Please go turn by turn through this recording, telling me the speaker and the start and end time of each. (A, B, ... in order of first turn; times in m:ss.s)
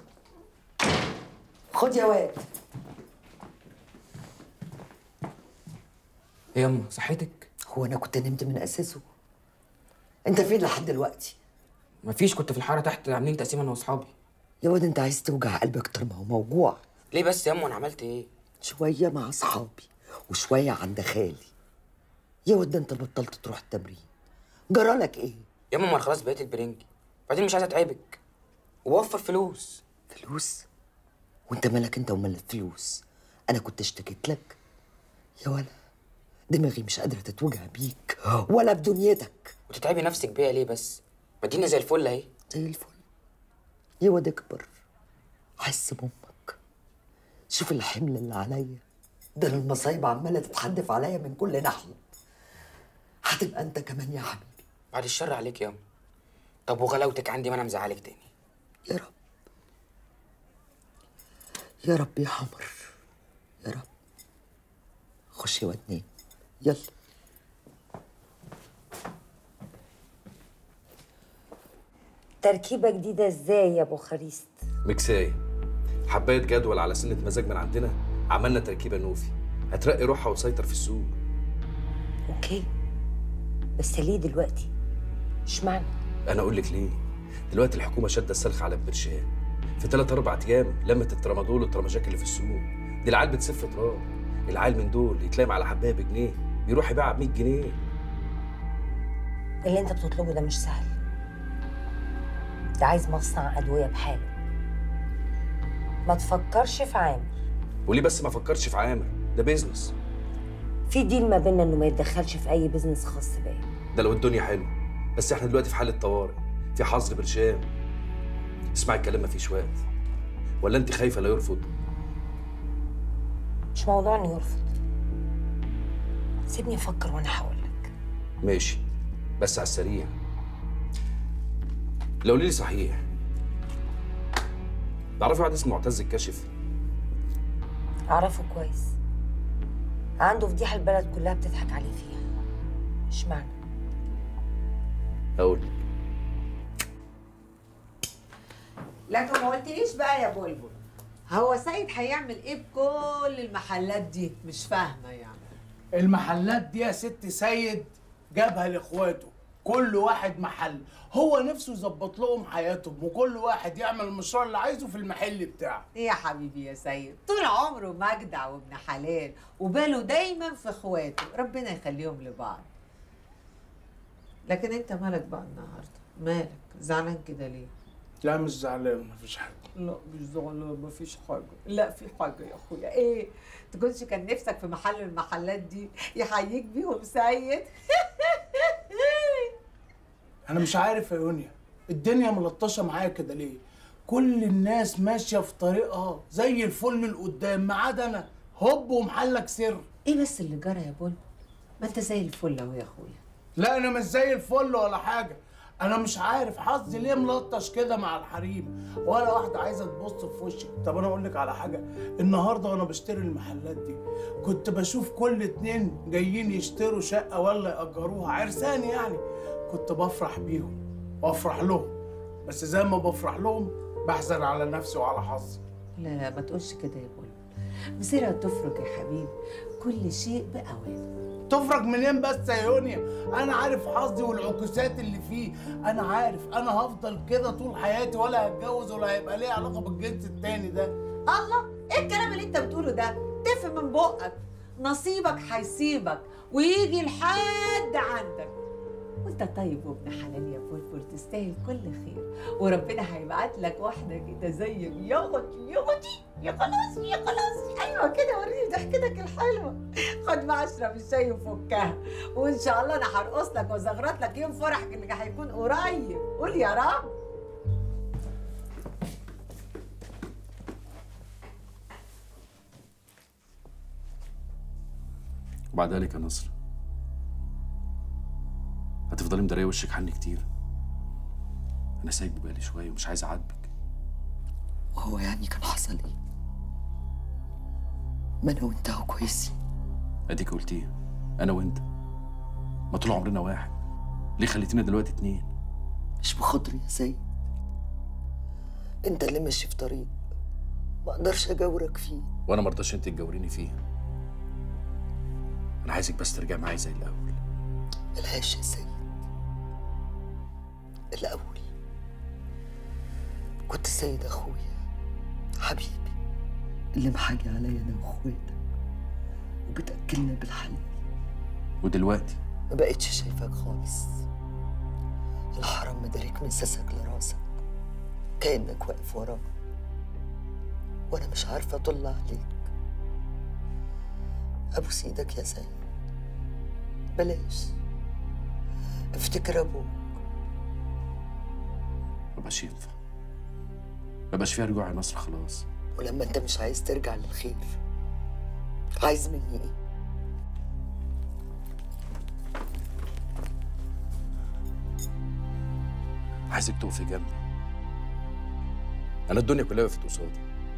0:01.7-0:02.4 A
0:06.5-0:07.5 B
0:07.7-0:09.0 A
0:10.2-0:11.4 A
0:12.0-0:14.1 B
0:14.6-0:16.8 A
0:17.1-0:18.3 B
0:18.6-0:21.5 A
0:22.5-0:24.0 A
0:24.7-0:25.4 A
0:25.7-0:28.2 B
0:28.8-0:29.8 B
0:30.1-0:30.6 A
0:31.5-0:34.6 A
0:35.4-0:35.7 A
0:36.5-0:39.5 A
0:39.7-0:42.3 B
0:42.5-0:43.0 A
0:44.0-0:44.7 A
0:45.6-0:46.6 A
0:47.5-0:48.8 A
0:49.4-0:52.0 A
0:53.2-0:54.6 A
0:54.9-0:55.8 B
0:56.7-0:58.3 B
0:58.9-0:59.1 A
1:01.8-1:02.7 A
1:05.3-1:06.0 A
1:06.6-1:06.9 A
1:12.4-1:14.5 C
1:14.8-1:15.4 D
1:16.1-1:21.2 D
1:22.3-1:22.7 C
1:23.8-1:24.7 C
1:25.5-1:25.9 C
1:26.3-1:27.0 D
1:27.5-1:29.3 D
1:29.8-1:37.8 D
1:39.6-1:40.9 C
1:42.8-1:44.3 C
1:46.0-1:47.3 C
1:47.9-1:49.9 D
1:50.9-1:53.6 C
1:53.9-1:57.6 D
1:58.7-1:59.8 D
2:00.6-2:01.6 D
2:03.7-2:04.6 C
2:06.5-2:07.9 C
2:08.4-2:08.8 D
2:09.4-2:10.1 D
2:12.2-2:13.0 D
2:15.2-2:16.5 D
2:18.1-2:18.9 C
2:20.2-2:22.2 C
2:23.1-2:23.5 C
2:25.4-2:25.7 D
2:29.1-2:30.8 E
2:31.3-2:35.4 E
2:36.0-2:45.8 F
2:45.9-2:52.7 E
2:54.5-2:57.7 E
2:58.2-2:59.7 F
2:59.7-3:09.5 E
3:10.5-3:19.8 F
3:20.0-3:21.2 E
3:21.8-3:23.2 E
3:23.6-3:41.9 F
3:42.4-3:45.6 F
3:46.0-3:47.4 E
3:48.0-3:51.0 E
3:51.5-4:00.9 F
4:01.3-4:08.5 E
4:09.2-4:27.1 E
4:35.7-4:36.5 D
4:39.1-4:40.4 D
4:42.0-4:43.7 D
4:44.9-4:46.1 A
4:48.4-4:49.5 A
4:50.3-4:51.8 D
4:52.9-4:53.7 D
4:54.4-4:55.5 D
4:56.2-4:57.2 A
4:59.0-5:00.1 A
5:01.0-5:02.2 A
5:02.5-5:03.8 D
5:05.8-5:07.4 D
5:08.2-5:09.0 A
5:11.1-5:11.7 A
5:13.7-5:14.7 A
5:15.6-5:16.1 A
5:17.0-5:18.6 A
5:19.7-5:20.9 A
5:21.8-5:22.4 D
5:22.7-5:24.2 A
5:25.6-5:27.4 A
5:28.4-5:29.4 A
5:31.1-5:32.7 A
5:34.7-5:35.7 A
5:37.1-5:37.8 A
5:39.1-5:40.2 A
5:42.4-5:42.9 D
5:44.3-5:45.6 D
5:45.9-5:47.8 A
5:49.0-5:49.7 A
5:56.5-5:57.4 D
5:59.3-6:00.4 D